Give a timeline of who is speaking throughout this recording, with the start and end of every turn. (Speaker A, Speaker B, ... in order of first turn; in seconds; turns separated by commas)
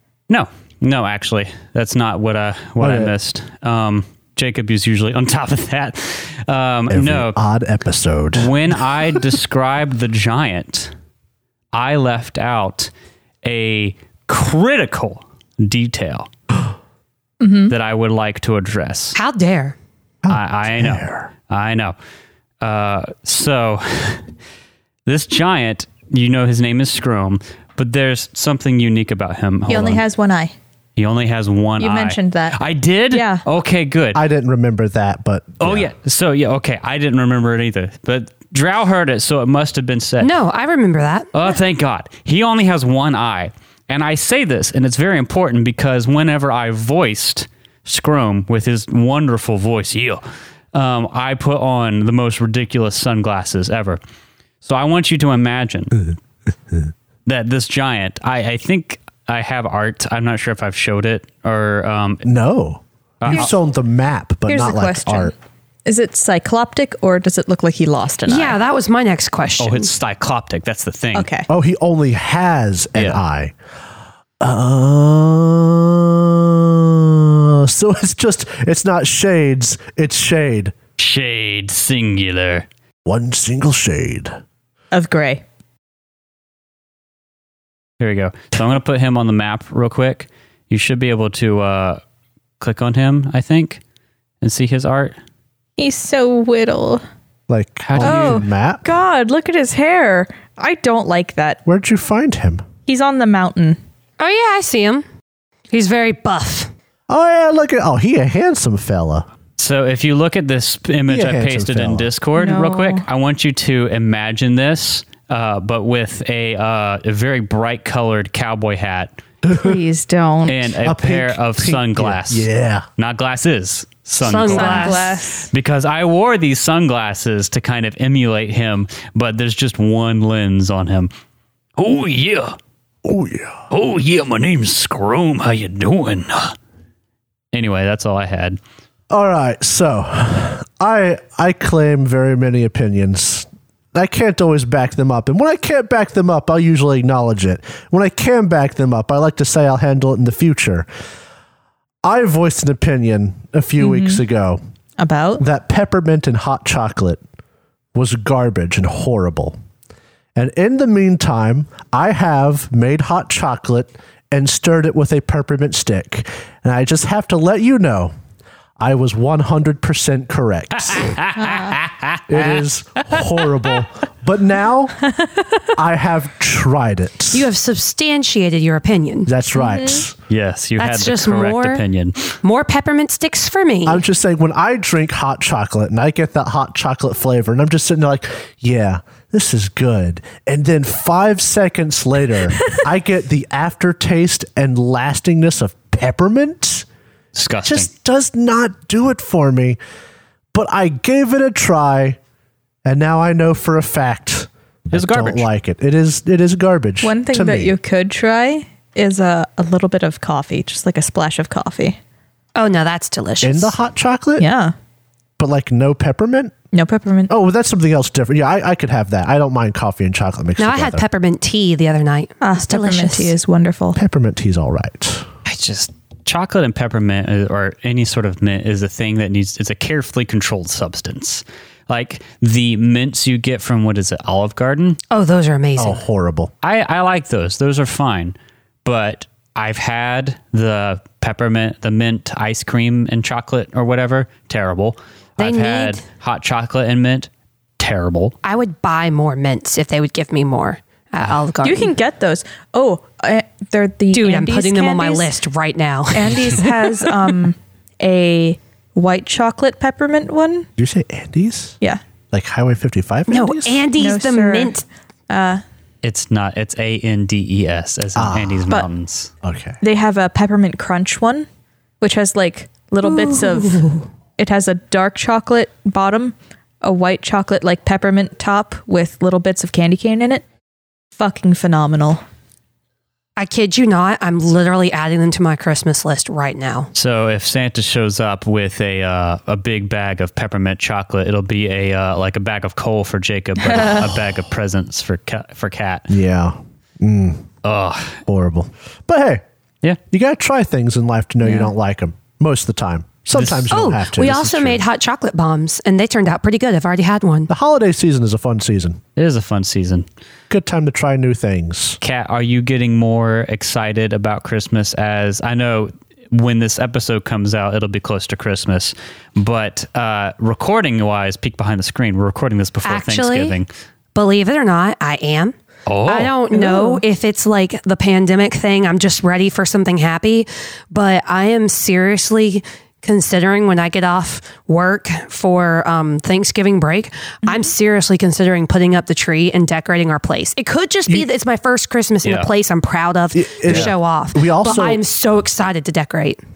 Speaker A: 0.3-7.4, Speaker B: 2.8-3.1, Speaker B: 6.9-8.8, Speaker A: 8.3-10.9, Speaker A: 11.7-12.9, Speaker A: 13.4-16.3, Speaker C: 17.4-17.7, Speaker A: 17.7-19.2, Speaker D: 19.1-19.8, Speaker B: 20.2-21.3, Speaker A: 20.3-21.9, Speaker A: 22.6-24.2, Speaker A: 25.1-30.0, Speaker C: 29.7-30.5, Speaker A: 30.9-34.2, Speaker C: 31.8-32.6, Speaker C: 33.1-33.4, Speaker B: 34.1-35.9, Speaker A: 35.6-40.4, Speaker D: 40.2-41.3, Speaker A: 41.3-50.2, Speaker A: 50.7-54.0, Speaker A: 54.6-56.1, Speaker A: 57.2-62.2, Speaker B: 62.2-65.3, Speaker A: 63.2-63.5, Speaker C: 64.5-65.3, Speaker C: 65.8-68.6, Speaker D: 68.3-69.9, Speaker A: 69.6-71.3, Speaker C: 71.1-71.5, Speaker B: 71.5-73.5, Speaker B: 74.4-80.7, Speaker A: 81.0-82.7, Speaker B: 83.0-84.3, Speaker C: 84.9-85.4, Speaker A: 88.0-92.0, Speaker A: 92.6-93.8, Speaker A: 94.4-95.2, Speaker C: 95.8-97.0, Speaker B: 97.5-98.9, Speaker A: 97.8-98.4, Speaker C: 98.0-101.6, Speaker B: 101.7-102.7, Speaker C: 102.9-103.8, Speaker D: 104.2-105.0, Speaker D: 105.7-106.7, Speaker B: 107.1-109.2, Speaker A: 109.6-119.1, Speaker B: 111.1-112.1, Speaker C: 112.3-113.0, Speaker B: 119.4-119.8, Speaker C: 119.5-120.6, Speaker A: 120.5-131.1, Speaker B: 120.8-122.9, Speaker D: 124.2-125.2, Speaker C: 124.4-125.5, Speaker A: 131.8-132.6, Speaker B: 133.0-133.6, Speaker A: 133.7-136.5, Speaker A: 137.5-138.6, Speaker B: 139.1-150.9, Speaker B: 152.0-154.6, Speaker C: 153.8-154.2, Speaker C: 155.0-155.4, Speaker B: 155.4-157.2, Speaker B: 157.9-159.6, Speaker B: 160.3-168.1, Speaker B: 168.8-171.2, Speaker A: 170.8-173.5, Speaker B: 172.3-174.9, Speaker B: 175.8-177.5, Speaker D: 177.3-179.3, Speaker B: 179.3-180.1, Speaker C: 179.5-180.1, Speaker A: 180.3-182.3, Speaker D: 180.8-181.8, Speaker D: 182.4-184.0, Speaker B: 183.8-196.8, Speaker A: 197.3-197.9, Speaker B: 197.6-199.8, Speaker B: 200.5-202.2, Speaker B: 202.8-207.7, Speaker A: 204.9-205.5, Speaker C: 207.0-212.0, Speaker D: 212.5-213.7, Speaker B: 213.4-214.5, Speaker C: 214.4-214.7, Speaker B: 215.4-216.5, Speaker C: 216.7-217.3, Speaker B: 217.3-221.0, Speaker D: 220.6-223.3, Speaker C: 222.4-224.0, Speaker B: 223.9-225.2, Speaker A: 225.4-235.0, Speaker D: 235.1-236.0, Speaker B: 235.8-236.5, Speaker A: 236.6-248.3, Speaker D: 245.4-246.0, Speaker D: 248.4-251.9, Speaker C: 251.6-255.3, Speaker D: 254.1-256.8, Speaker C: 256.1-260.7, Speaker B: 260.8-261.8, Speaker B: 262.3-263.9, Speaker D: 263.3-264.8, Speaker C: 264.0-264.8, Speaker C: 265.3-265.6, Speaker A: 266.0-269.3, Speaker B: 268.1-268.6, Speaker B: 269.4-269.8, Speaker C: 269.8-271.5, Speaker C: 272.0-280.4, Speaker D: 273.1-273.9, Speaker C: 281.1-282.2, Speaker D: 283.4-286.9, Speaker A: 286.9-296.1, Speaker B: 296.1-297.4, Speaker A: 297.6-298.2, Speaker B: 298.2-299.4, Speaker B: 300.1-304.8, Speaker C: 301.4-301.7, Speaker A: 303.3-303.7, Speaker D: 303.7-307.5, Speaker B: 307.5-309.0, Speaker A: 309.1-310.1, Speaker B: 310.5-312.0, Speaker A: 312.0-323.7, Speaker D: 322.8-323.6, Speaker D: 324.1-325.5, Speaker A: 325.9-326.3, Speaker D: 326.1-346.4, Speaker C: 326.5-327.0, Speaker A: 342.2-342.5, Speaker B: 343.3-345.0, Speaker A: 343.7-343.9